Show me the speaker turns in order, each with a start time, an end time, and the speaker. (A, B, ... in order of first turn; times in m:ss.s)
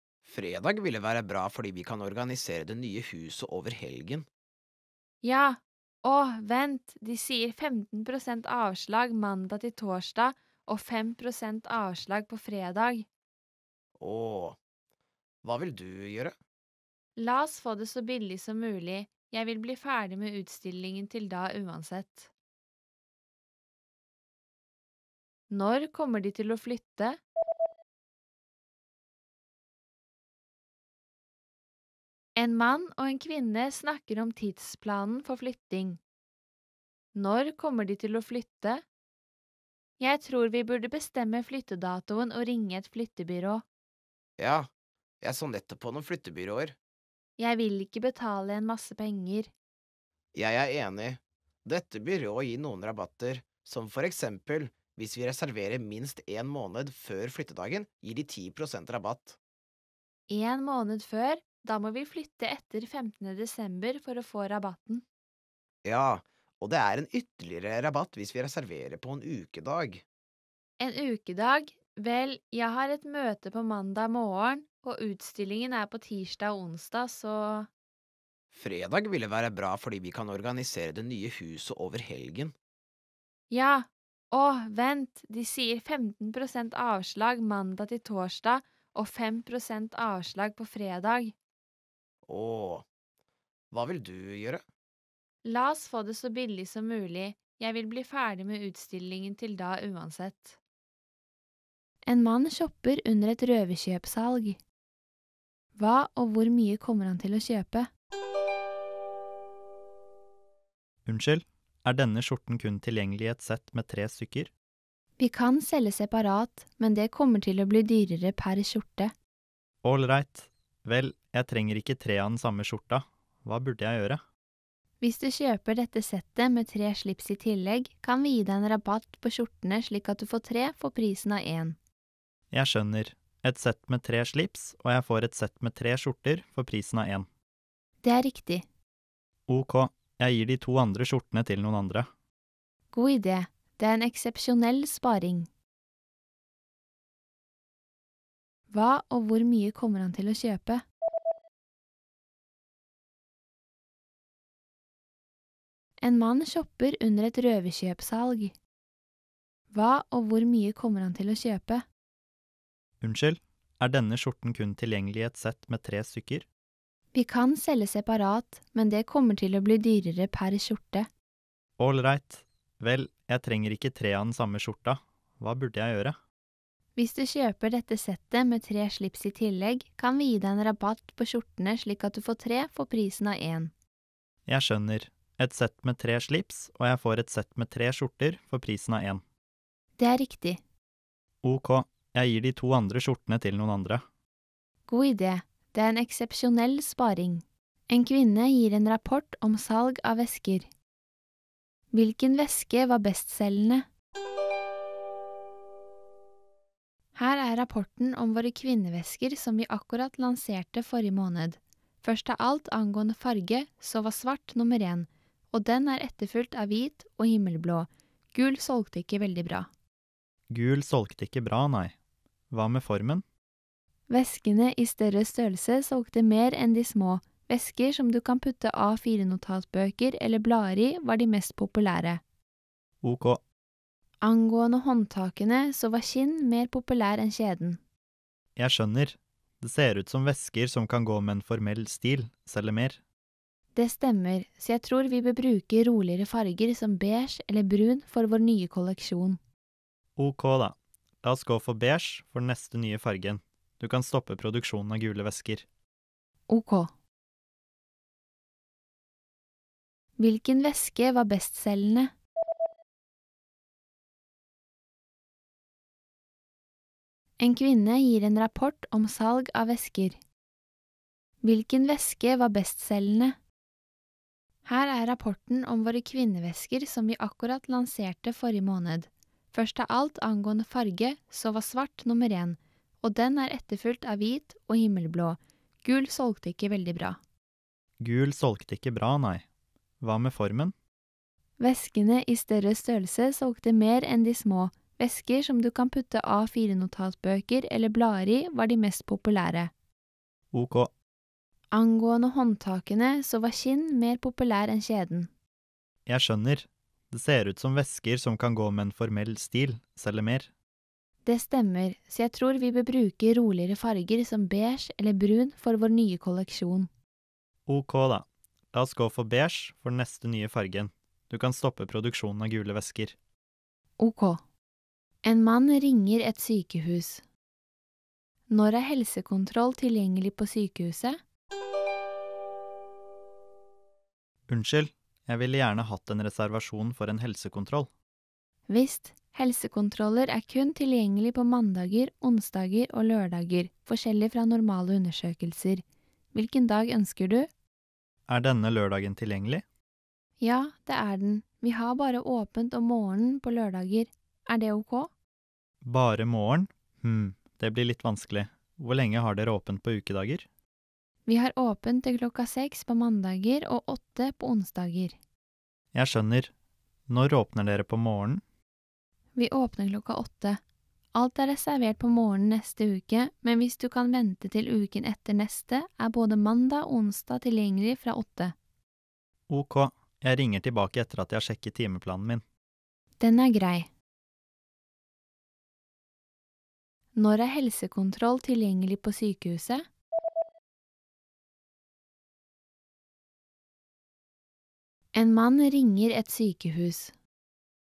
0:00.2-0:04.3 A
0:05.2-0:13.1 B
0:14.0-0:14.6 A
0:15.4-0:16.3 A
0:17.2-0:22.3 B
0:25.5-0:27.2 B
0:32.4-0:36.0 B
0:37.1-0:38.8 B
0:40.0-0:43.6 B
0:44.4-0:44.7 A
0:45.2-0:46.8 A
0:47.4-0:49.5 B
0:50.3-0:59.4 A
1:00.3-1:05.0 B
1:05.8-1:10.0 A
1:10.8-1:17.7 B
1:18.5-1:22.5 A
1:23.5-1:31.3 B
1:32.2-1:32.8 A
1:33.7-1:34.6 A
1:35.4-1:40.6 B
1:42.0-1:44.6 B
1:45.8-1:47.9 B
1:51.0-1:54.5 C
1:55.2-1:59.1 B
1:59.8-2:04.2 C
2:05.0-2:11.8 B
2:12.5-2:17.3 C
2:18.0-2:18.6 B
2:19.5-2:22.1 C
2:22.9-2:25.5 B
2:28.7-2:30.8 B
2:36.0-2:38.5 B
2:39.7-2:41.8 B
2:43.0-2:46.4 C
2:47.1-2:51.1 B
2:51.8-2:56.2 C
2:57.0-3:03.7 B
3:04.4-3:09.2 C
3:10.0-3:10.6 B
3:11.4-3:14.0 C
3:14.9-3:20.7 B
3:21.9-3:23.8 B
3:27.1-3:39.7 B
3:40.5-3:41.9 C
3:42.5-3:43.2 C
3:44.1-3:52.2 B
3:53.0-3:53.4 C
3:54.2-3:57.8 B
3:58.6-4:03.0 C
4:03.7-4:09.4 B
4:10.2-4:15.6 C
4:16.5-4:16.9 B
4:20.2-4:22.1 B
4:27.4-4:30.2 B
4:31.4-4:33.4 B
4:34.6-4:47.2 B
4:48.0-4:49.4 C
4:50.0-4:50.7 C
4:51.6-4:59.7 B
5:00.5-5:00.9 C
5:01.7-5:05.3 B
5:06.0-5:10.5 C
5:11.2-5:16.9 B
5:17.7-5:23.2 C
5:24.0-5:24.4 B
5:25.2-5:27.2 B
5:28.5-5:31.2 B
5:34.5-5:37.9 C
5:38.7-5:45.8 B
5:46.3-5:47.5 B
5:48.3-5:49.6 C
5:50.4-5:55.1 B
5:55.8-6:00.4 C
6:01.3-6:05.2 B
6:05.9-6:06.5 C
6:07.1-6:08.4 C
6:09.4-6:10.6 B
6:11.1-6:18.5 B
6:19.5-6:22.4 C
6:23.2-6:23.9 B
6:27.1-6:29.8 B
6:35.1-6:37.1 B